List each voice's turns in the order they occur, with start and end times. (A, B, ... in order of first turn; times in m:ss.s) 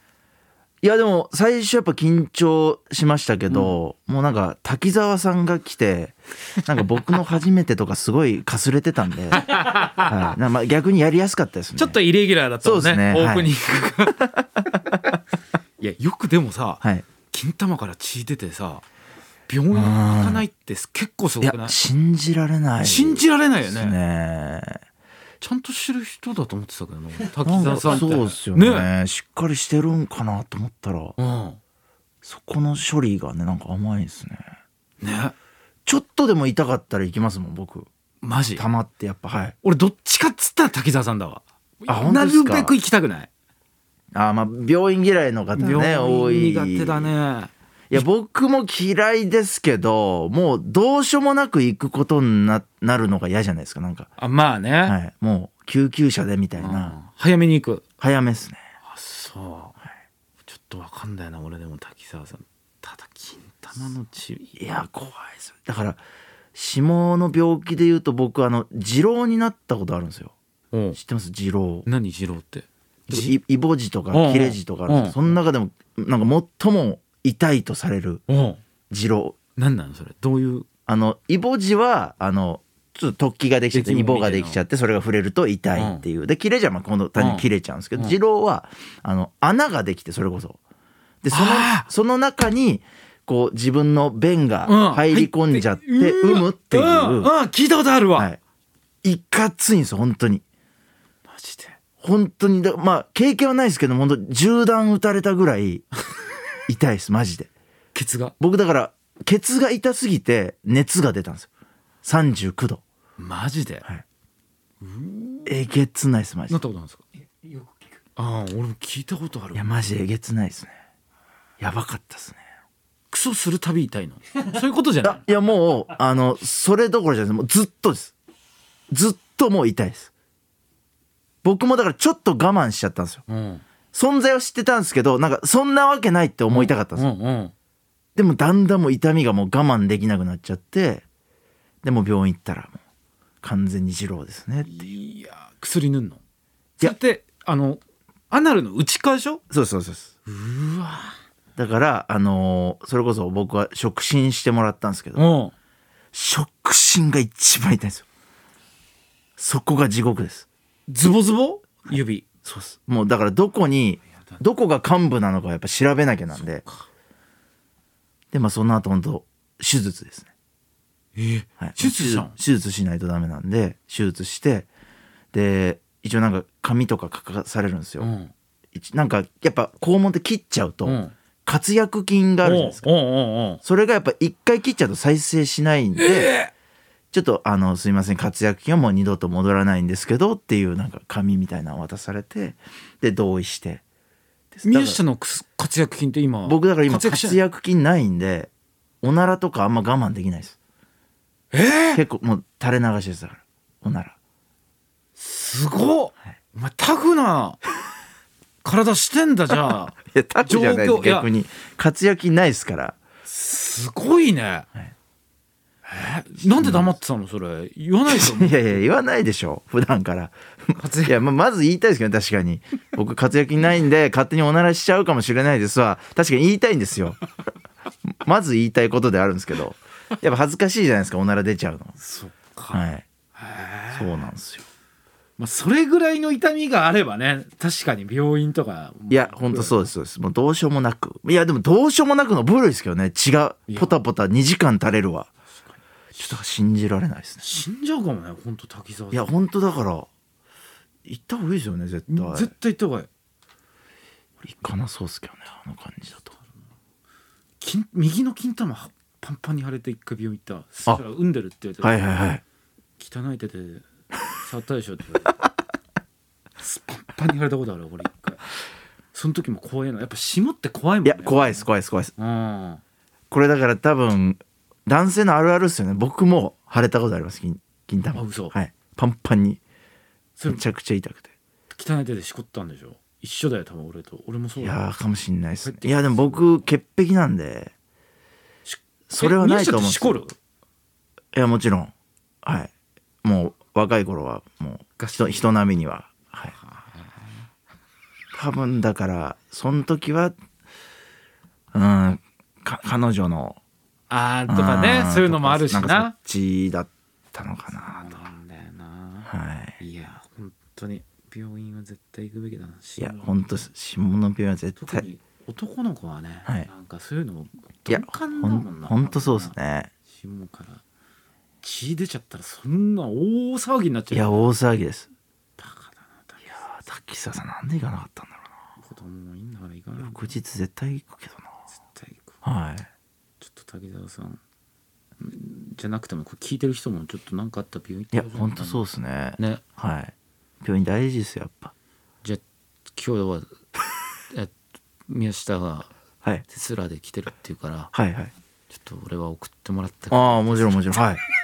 0:00.8-0:12.0 A
0:03.5-0:03.8 B
0:09.4-0:10.4 B
0:11.8-0:14.3 B
0:12.6-0:13.6 A
0:14.4-0:15.0 A
0:15.8-0:18.8 B
0:19.5-0:21.8 B
0:19.7-0:20.4 A
0:21.4-0:24.8 A
0:22.8-0:24.0 B
0:25.4-0:28.9 B
0:27.4-0:31.2 A
0:31.2-0:31.6 B
0:32.2-0:34.5 A
0:35.0-0:35.4 B
0:35.9-0:37.9 A
0:38.2-0:38.7 B
0:38.6-0:39.6 A
0:39.6-0:43.3 B
0:41.9-0:42.8 A
0:44.1-0:47.1 A
0:45.6-0:48.1 B
0:47.9-0:54.1 A
0:54.2-0:55.0 B
0:54.8-0:57.0 A
0:56.6-0:57.8 B
0:58.0-0:58.6 A
0:58.8-0:59.8 B
1:00.4-1:04.6 B
1:04.6-1:06.0 A
1:06.6-1:10.3 A
1:10.7-1:11.0 B
1:11.0-1:11.9 A
1:11.9-1:13.4 B
1:13.1-1:18.2 A
1:14.1-1:15.4 B
1:18.3-1:18.6 B
1:18.9-1:19.4 A
1:19.6-1:20.7 B
1:20.9-1:30.6 A
1:23.7-1:24.6 B
1:25.8-1:26.0 B
1:27.2-1:28.2 B
1:31.2-1:37.3 A
1:31.3-1:31.9 B
1:34.7-1:38.3 B
1:39.0-1:40.4 A
1:41.3-1:41.8 B
1:42.0-1:45.8 A
1:46.7-1:47.5 A
1:47.9-1:48.4 B
1:48.4-1:51.5 A
1:52.0-1:52.8 A
1:53.2-1:53.8 B
1:54.8-1:55.5 B
1:55.5-1:56.6 A
1:56.5-1:57.1 B
1:58.2-1:59.7 B
1:59.6-2:00.7 A
2:01.6-2:02.4 A
2:03.1-2:05.2 B
2:05.0-2:08.1 A
2:08.9-2:10.1 A
2:11.4-2:13.2 A
2:13.3-2:13.6 B
2:13.9-2:17.1 A
2:16.5-2:17.5 B
2:18.2-2:21.0 A
2:21.8-2:22.8 A
2:23.4-2:24.9 A
2:24.6-2:26.2 B
2:26.8-2:29.4 B
2:29.5-2:30.1 A
2:30.3-2:31.2 B
2:31.6-2:35.2 A
2:35.2-2:35.5 B
2:36.1-2:38.1 A
2:39.4-2:40.5 A
2:40.9-2:42.2 B
2:42.4-2:46.6 A
2:46.4-2:46.8 B
2:48.3-2:50.3 A
2:51.2-2:52.4 B
2:51.6-2:54.7 A
2:55.3-2:58.1 A
2:58.0-2:58.3 B
2:58.7-3:02.9 A
3:00.9-3:01.1 B
3:02.4-3:03.6 B
3:03.6-3:06.3 A
3:06.0-3:06.5 B
3:07.1-3:13.8 A
3:14.5-3:15.0 A
3:14.6-3:17.4 B
3:16.5-3:18.5 A
3:19.0-3:20.6 A
3:21.5-3:22.0 B
3:21.9-3:24.2 A
3:25.2-3:27.6 B
3:28.6-3:31.3 B
3:30.0-3:33.0 A
3:33.3-3:34.7 B
3:35.8-3:38.8 B
3:36.4-3:37.0 A
3:38.1-3:47.2 A
3:40.8-3:41.2 B
3:48.2-3:52.0 A
3:52.0-3:52.8 B
3:52.7-3:53.0 A
3:53.4-3:54.2 B
3:53.9-3:54.7 A
3:55.4-3:59.9 B
3:59.1-4:05.3 A
4:03.7-4:04.0 B
4:06.2-4:07.6 A
4:07.4-4:09.3 B
4:09.1-4:10.1 A
4:11.1-4:12.5 A
4:12.1-4:13.1 B
4:14.4-4:16.3 A
4:17.6-4:22.1 B
4:21.8-4:22.4 A
4:23.0-4:23.8 B
4:24.4-4:25.4 B
4:26.6-4:28.4 B
4:29.1-4:32.8 B
4:31.0-4:32.1 A
4:33.3-4:39.6 A
4:38.1-4:38.6 B
4:40.4-4:40.6 B
4:40.5-4:41.3 A
4:41.7-4:44.8 B
4:44.6-4:47.7 A
4:45.6-4:46.5 B
4:48.7-4:50.3 B
4:49.1-4:50.3 A
4:51.3-4:51.9 A
4:52.4-4:52.7 A
4:53.2-4:56.6 A
4:55.0-4:55.5 B
4:56.6-4:57.4 B
4:58.3-5:00.4 A
5:01.7-5:03.6 A
5:04.1-5:06.1 B
5:04.5-5:08.2 A
5:07.7-5:13.6 B
5:09.3-5:09.8 A
5:13.0-5:15.0 A
5:14.8-5:19.6 B
5:17.9-5:19.9 A
5:20.1-5:20.8 B
5:21.6-5:24.5 B
5:24.1-5:25.1 A
5:25.6-5:26.7 B
5:26.5-5:28.5 A
5:28.8-5:30.3 B
5:30.0-5:31.5 A
5:31.7-5:32.3 B
5:32.4-5:32.9 A
5:33.4-5:34.4 B
5:35.2-5:38.8 B
5:38.1-5:41.7 A
5:39.4-5:39.6 B
5:42.9-5:43.6 B
5:45.1-5:45.9 B
5:46.5-5:47.9 B
5:47.9-5:48.3 A
5:48.7-5:50.9 B
5:50.1-5:51.2 A